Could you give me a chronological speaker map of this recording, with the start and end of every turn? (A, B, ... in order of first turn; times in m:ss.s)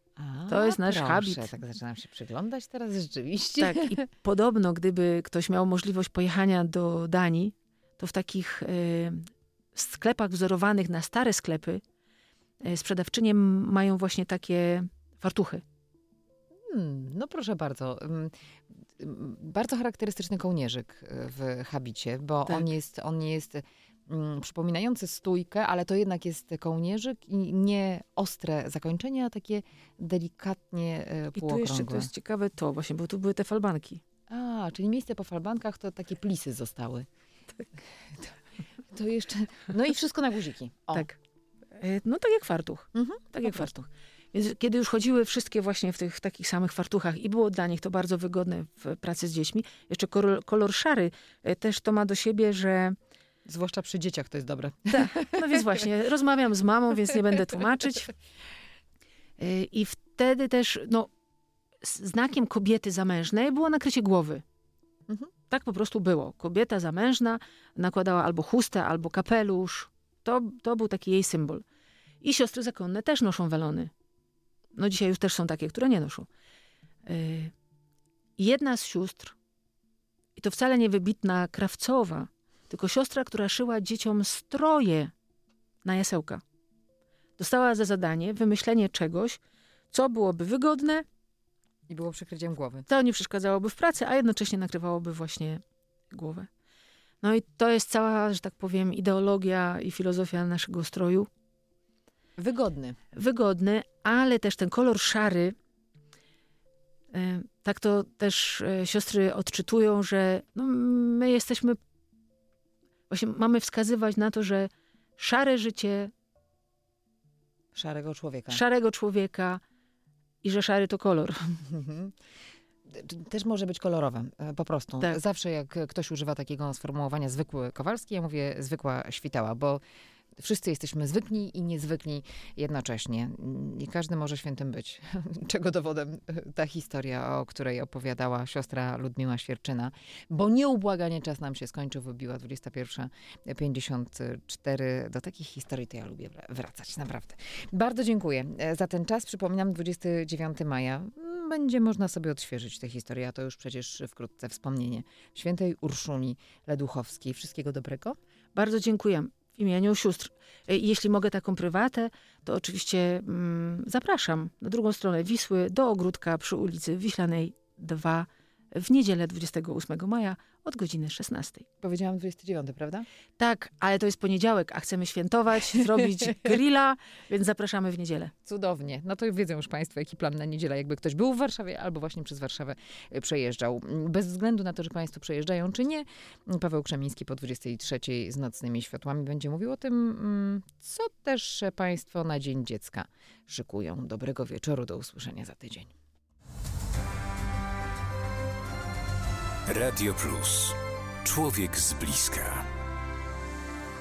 0:00.2-0:04.0 A
0:00.5-0:01.5 B
0:03.6-0:11.8 B
0:12.6-0:15.6 B
0:16.7-0:18.3 A
0:19.0-0:32.1 A
0:31.3-0:34.0 B
0:34.3-0:37.1 A
0:38.9-0:41.1 A
0:40.9-0:41.2 B
0:41.8-0:52.9 B
0:42.9-0:43.7 A
0:53.4-0:55.7 A
0:54.9-0:58.1 B
0:59.4-1:01.1 B
1:01.8-1:04.4 B
1:05.5-1:11.6 B
1:12.2-1:13.9 B
1:14.7-1:16.3 B
1:17.0-1:17.5 B
1:18.4-1:19.3 B
1:20.4-1:25.1 B
1:25.8-1:26.4 B
1:27.4-1:31.0 B
1:31.9-1:32.9 A
1:32.9-1:35.6 B
1:36.1-1:36.5 B
1:37.2-1:41.3 B
1:42.4-1:43.0 A
1:43.1-1:45.5 B
1:47.1-1:51.8 B
1:53.1-1:56.1 B
1:57.7-1:58.6 A
1:58.5-1:59.6 B
2:00.4-2:01.4 B
2:01.7-2:02.1 A
2:02.9-2:09.8 A
2:10.4-2:38.2 A
2:38.5-2:51.6 B
2:51.8-2:53.0 A
2:53.4-2:58.3 B
2:58.4-3:15.9 A
3:19.6-3:22.7 C